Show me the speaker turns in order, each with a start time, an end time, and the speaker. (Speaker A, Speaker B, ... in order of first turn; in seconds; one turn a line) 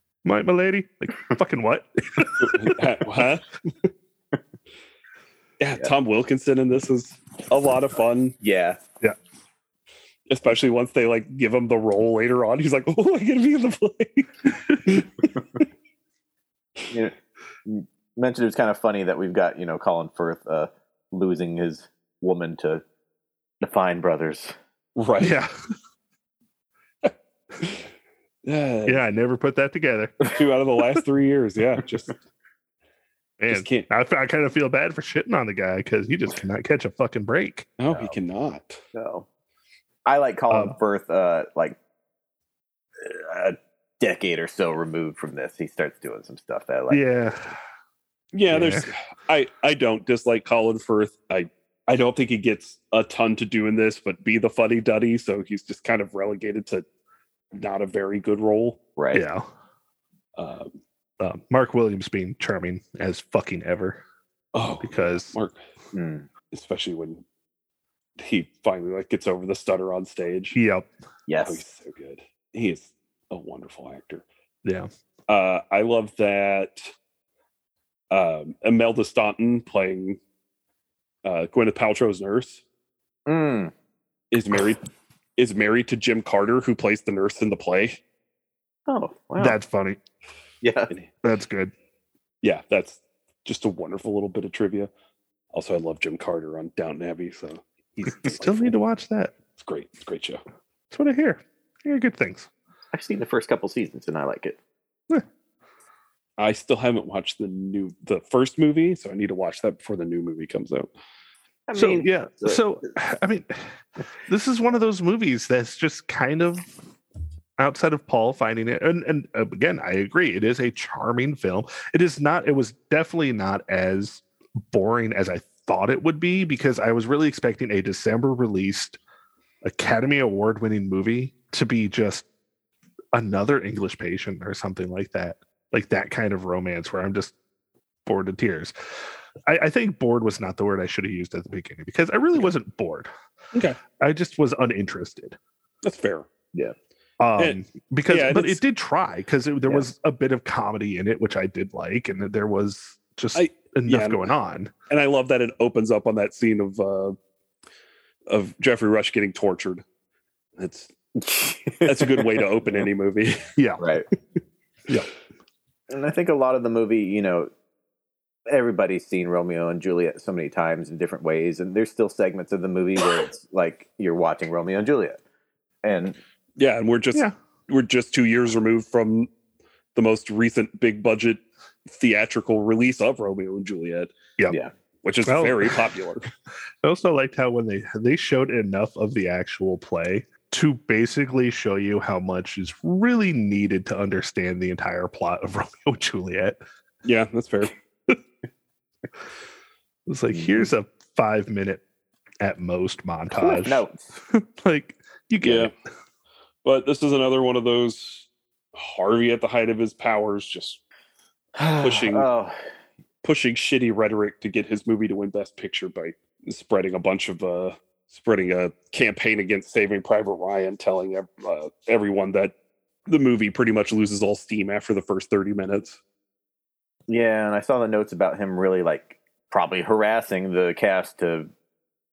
Speaker A: 0.2-2.8
Speaker B: 2.4-3.5
Speaker B: 5.6-8.3
Speaker C: 8.4-8.8
Speaker B: 10.3-15.1
Speaker C: 16.9-22.8
Speaker C: 23.6-24.5
Speaker B: 24.9-25.3
Speaker A: 25.2-25.5
Speaker B: 27.0-27.8
Speaker B: 28.4-29.0
Speaker A: 28.9-30.2
Speaker B: 30.2-32.2
Speaker A: 33.4-37.7
Speaker B: 33.5-33.9
Speaker B: 37.8-38.8
Speaker C: 38.9-39.2
Speaker C: 40.0-41.8
Speaker A: 40.5-40.7
Speaker C: 43.0-47.0
Speaker A: 46.9-47.5
Speaker B: 48.3-56.9
Speaker A: 48.5-48.9
Speaker B: 57.5-58.8
Speaker C: 59.0-59.2
Speaker A: 59.1-59.5
Speaker B: 60.4-60.8
Speaker A: 61.2-64.0
Speaker B: 64.5-65.6
Speaker A: 64.8-65.3
Speaker C: 65.9-66.3
Speaker B: 66.5-67.2
Speaker B: 68.2-70.5
Speaker A: 70.5-70.9
Speaker C: 71.3-71.6
Speaker B: 71.4-74.2
Speaker B: 75.3-76.8
Speaker B: 78.1-80.2
Speaker B: 81.2-82.6
Speaker C: 83.2-83.7
Speaker B: 84.3-84.8
Speaker B: 85.4-88.0
Speaker C: 88.9-89.6
Speaker A: 89.4-90.0
Speaker C: 90.6-90.9
Speaker A: 91.2-91.7
Speaker B: 92.4-94.9
Speaker B: 95.5-98.8
Speaker A: 98.2-99.3
Speaker B: 99.5-100.4
Speaker A: 100.9-102.5
Speaker C: 102.9-104.6
Speaker B: 106.4-110.9
Speaker C: 111.7-112.6
Speaker A: 111.7-113.7
Speaker A: 114.3-116.7
Speaker A: 117.6-129.0
Speaker A: 129.6-132.2
Speaker A: 133.1-137.3
Speaker A: 138.1-138.7
Speaker A: 139.4-143.1
Speaker B: 143.5-143.8
Speaker A: 144.0-145.3
Speaker B: 145.8-146.3
Speaker A: 147.2-154.7
Speaker B: 147.4-148.6
Speaker B: 153.3-154.3
Speaker B: 154.9-157.2
Speaker B: 158.3-159.8
Speaker B: 160.6-160.9
Speaker C: 161.2-162.4
Speaker B: 161.8-163.4
Speaker A: 163.6-163.8
Speaker C: 163.8-164.1
Speaker C: 165.9-167.5
Speaker C: 168.5-175.2
Speaker C: 175.8-176.2
Speaker B: 176.6-179.3
Speaker B: 179.9-184.1
Speaker B: 185.0-186.3
Speaker A: 185.2-185.9
Speaker A: 186.8-196.6
Speaker B: 197.0-197.7
Speaker A: 200.1-201.8
Speaker C: 200.3-200.7
Speaker A: 202.4-205.7
Speaker C: 203.3-204.1
Speaker B: 205.4-205.7
Speaker B: 206.6-210.8
Speaker C: 211.6-212.6
Speaker B: 211.8-212.3
Speaker B: 213.2-222.5
Speaker B: 223.1-226.0
Speaker C: 227.1-231.5